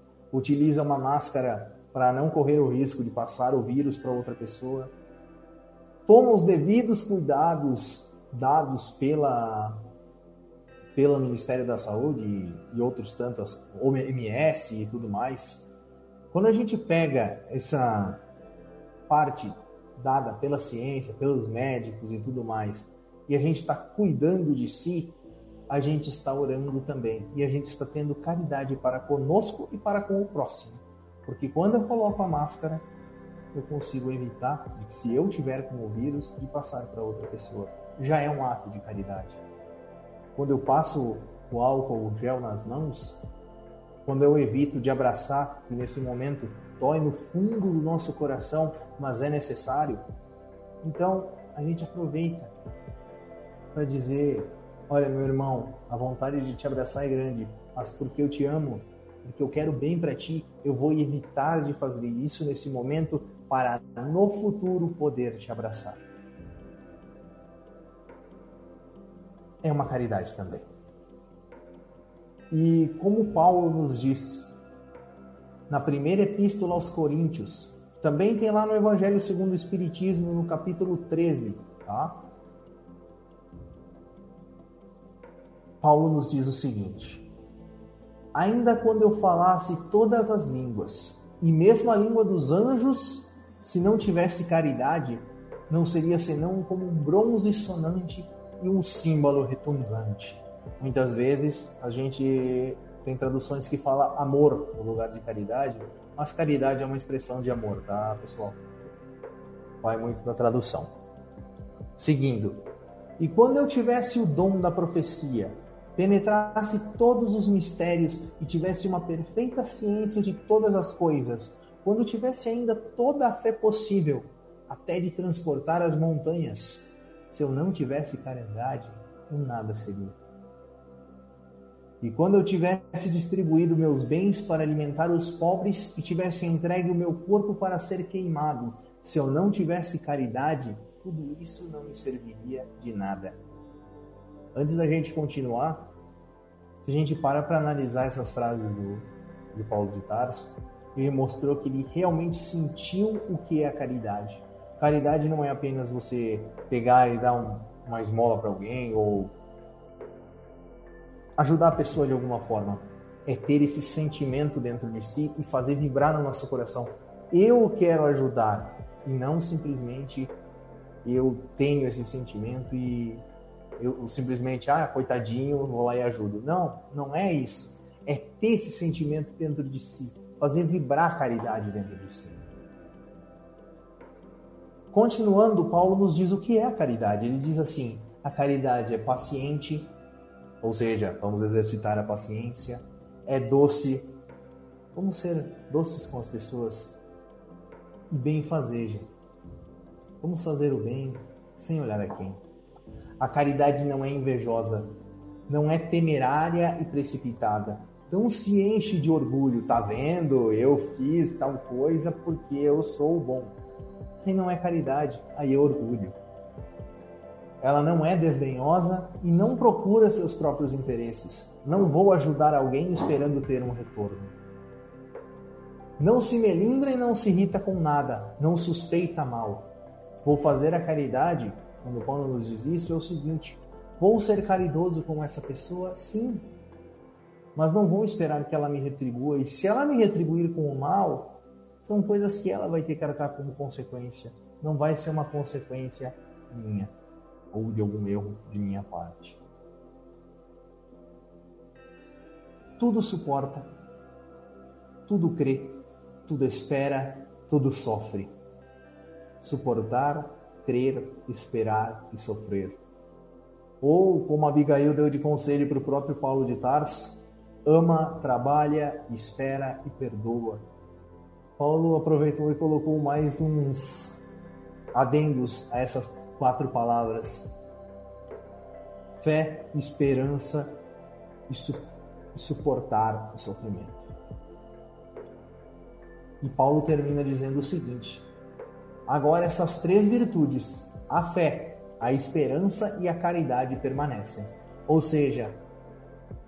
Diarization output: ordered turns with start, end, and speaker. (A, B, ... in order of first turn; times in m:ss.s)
0:00.3-0:04.9 A
0:06.0-0:09.9 A
0:10.9-0:15.7 A
0:16.3-0:18.2 A
0:19.1-0:32.9 A
0:33.5-0:39.4 A
0:40.4-0:43.2 A
0:44.0-0:50.0 A
0:50.8-0:52.5 A
0:53.7-1:06.0 A
1:09.6-1:10.7 A
1:12.5-1:14.5 A
1:15.7-1:22.3 A
1:25.8-1:27.3 A
1:28.3-1:48.9 A
1:49.8-1:50.9 A
1:52.0-1:52.7 A
1:53.2-2:10.2 A
2:12.0-2:23.4 A
2:24.5-2:25.9 A
2:26.8-2:39.3 A
2:41.4-2:50.4 A
2:51.0-2:53.2 A
2:53.8-3:02.5 A
3:04.9-3:10.0 A
3:10.6-3:14.2 A
3:14.9-3:16.9 A
3:18.1-3:19.1 A
3:20.2-3:22.4 A
3:23.2-3:33.6 A
3:34.2-3:36.2 A
3:37.6-3:44.4 A
3:46.0-3:56.5 A
3:57.5-4:06.9 A
4:07.5-4:09.4 A
4:12.8-4:13.7 A
4:15.1-4:18.3 A
4:19.4-4:22.8 A
4:23.8-4:30.6 A
4:31.6-4:34.2 A
4:34.9-4:37.6 A
4:39.2-4:40.8 A
4:41.5-4:44.1 A
4:46.4-4:48.3 A
4:49.1-4:55.6 A